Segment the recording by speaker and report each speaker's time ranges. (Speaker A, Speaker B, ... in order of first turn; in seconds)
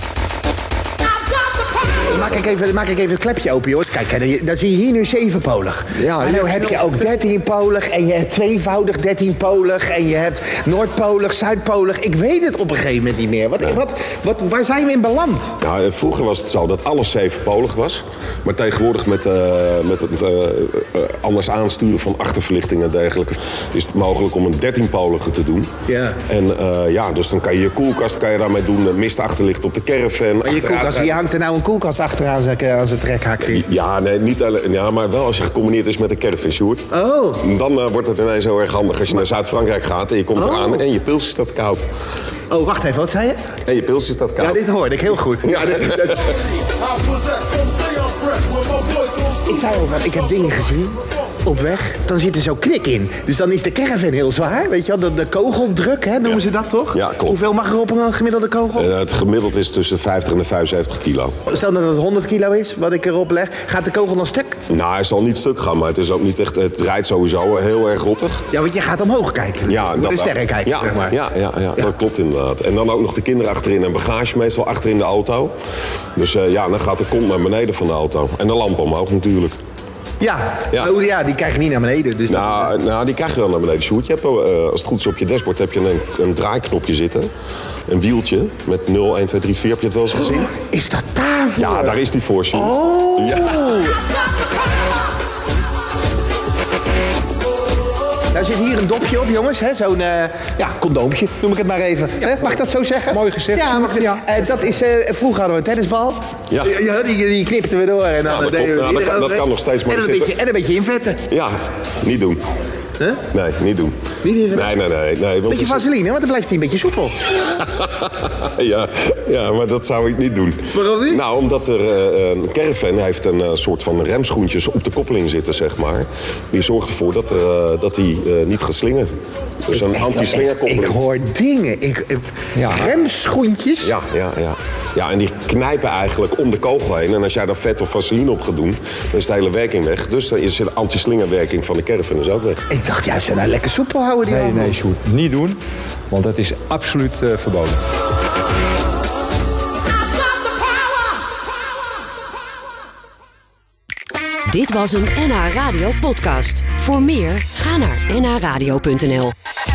Speaker A: 2.0-15.6, 25.9-26.2, 30.4-33.6, 36.9-37.4, 40.4-40.8, 42.5-43.4, 44.4-46.3, 49.4-58.9, 61.5-64.6, 68.5-71.2, 80.2-82.7, 90.5-92.0, 92.5-93.9, 98.3-111.2, 114.2-114.7, 115.5-117.4, 120.7-121.2, 129.7-133.9, 142.7-144.8
Speaker B: 5.9-6.8, 103.1-104.2, 132.6-132.9, 144.2-147.8
Speaker C: 15.6-25.7, 26.2-31.2, 33.5-41.9, 43.6-44.6, 45.4-46.3, 56.9-57.4, 58.7-61.4, 64.7-68.4, 69.7-75.5, 76.2-79.5, 82.3-87.3, 87.9-90.5, 91.6-93.7, 108.3-110.3, 111.3-112.4, 113.3-115.9, 117.7-129.1, 129.6-131.0, 133.8-142.6
Speaker D: 154.4-159.3